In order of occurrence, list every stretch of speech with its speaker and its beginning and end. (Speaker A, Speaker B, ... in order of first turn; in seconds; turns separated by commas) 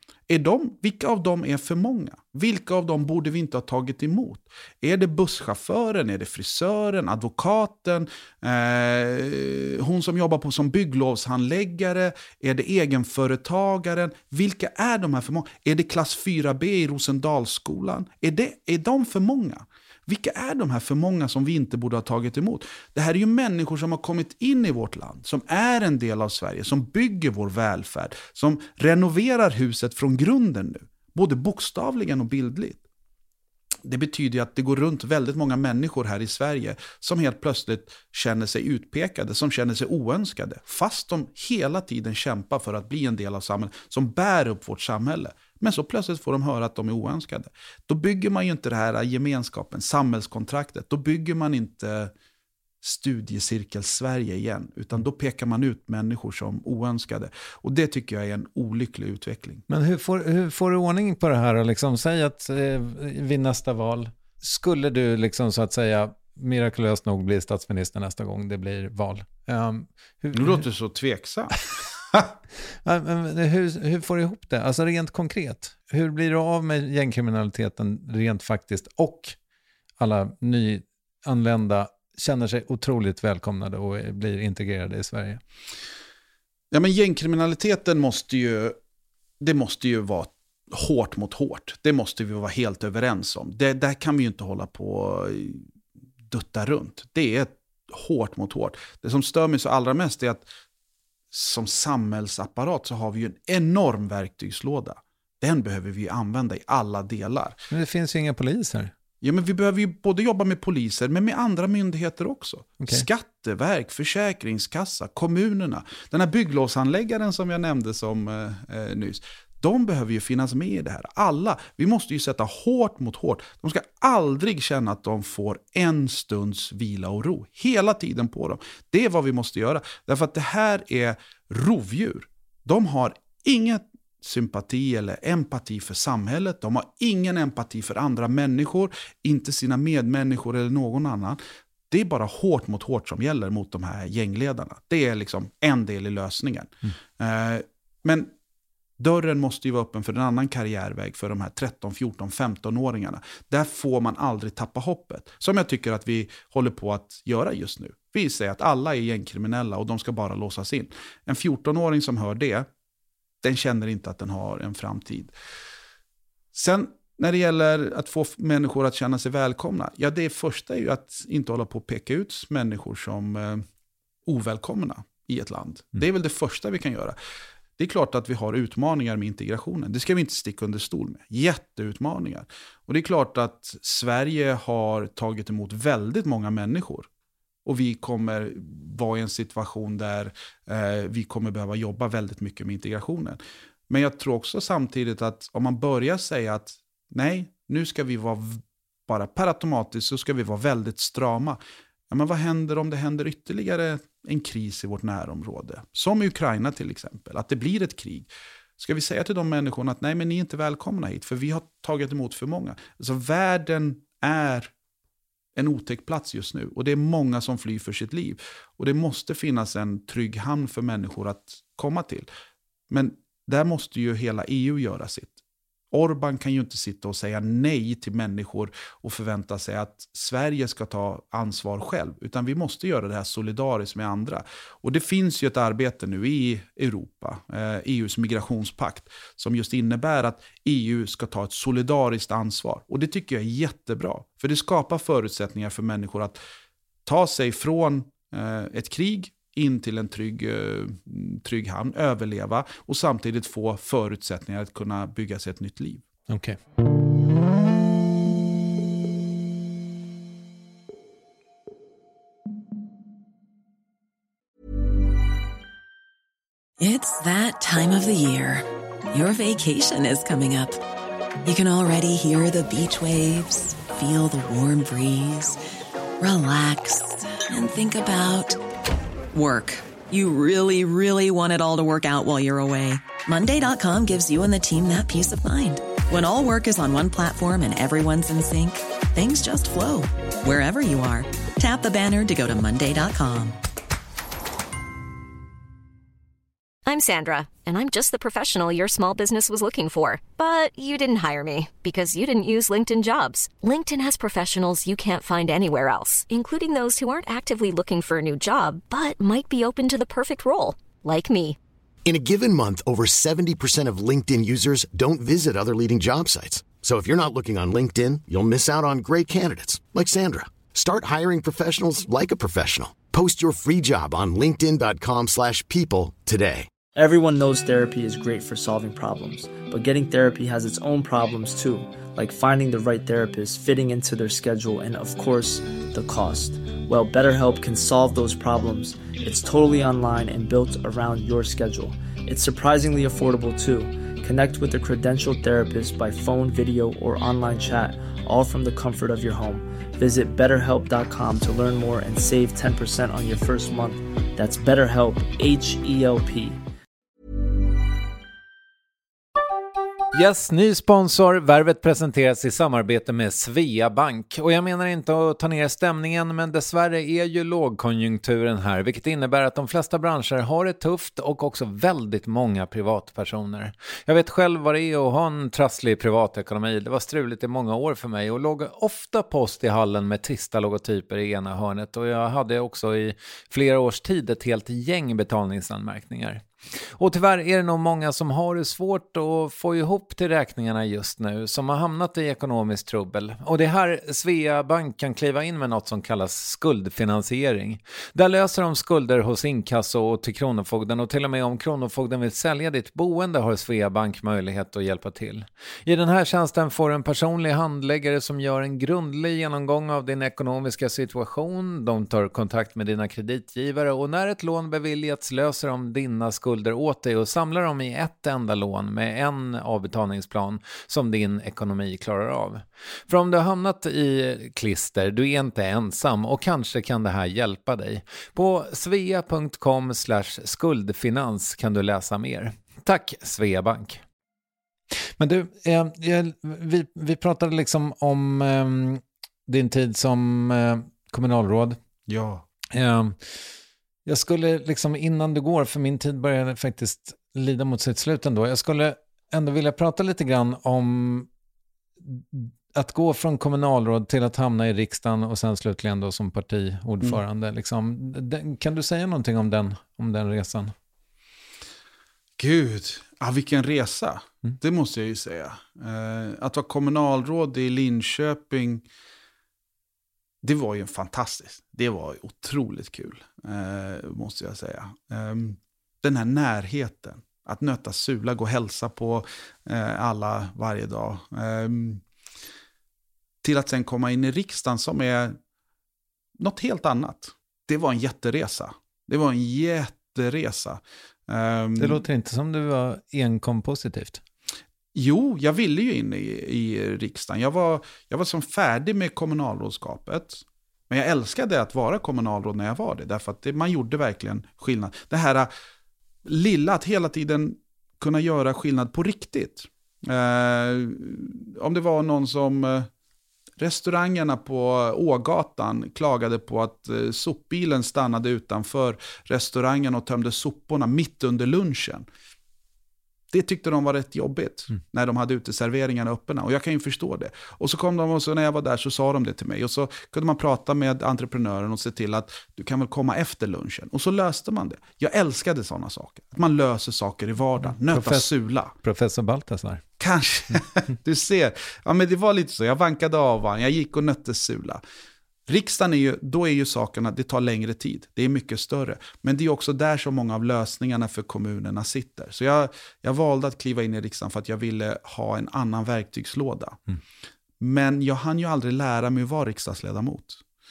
Speaker A: 0.3-32.8, Speaker A: 33.8-52.1, Speaker A: 52.8-59.6, Speaker B: 59.7-70.6, Speaker A: 70.3-72.4, Speaker B: 72.8-79.4, Speaker B: 80.0-85.4, Speaker A: 86.7-88.8, Speaker A: 89.4-95.7, Speaker A: 96.3-100.5, Speaker A: 101.3-107.6, Speaker B: 107.7-108.9, Speaker A: 109.2-148.3, Speaker B: 112.8-113.1, Speaker A: 149.0-162.7, Speaker A: 163.4-165.3, Speaker A: 166.5-173.7, Speaker A: 174.3-177.2, Speaker A: 177.8-187.1, Speaker A: 187.7-214.7, Speaker A: 215.6-222.3, Speaker A: 222.9-225.4, Speaker A: 225.9-246.4, Speaker A: 247.1-256.1, Speaker B: 256.3-256.6, Speaker C: 266.8-270.8, Speaker C: 271.4-275.6, Speaker C: 276.2-278.6, Speaker C: 279.3-293.6, Speaker D: 296.9-311.6, Speaker E: 312.1-326.7, Speaker F: 327.0-356.6, Speaker B: 360.1-434.0, Speaker B: 434.9-441.8, Speaker A: 442.1-442.4, Speaker B: 442.7-443.5, Speaker B: 444.1-451.3, Speaker B: 452.0-460.7, Speaker A: 462.4-468.9, Speaker A: 470.4-482.0, Speaker A: 483.4-485.4, Speaker A: 486.4-492.0, Speaker B: 491.8-494.2, Speaker A: 494.9-505.5, Speaker A: 506.2-512.9, Speaker A: 513.6-522.1, Speaker A: 523.3-538.7, Speaker B: 537.9-538.3, Speaker B: 538.8-539.8, Speaker A: 540.0-544.8, Speaker A: 545.5-556.8, Speaker A: 557.6-560.4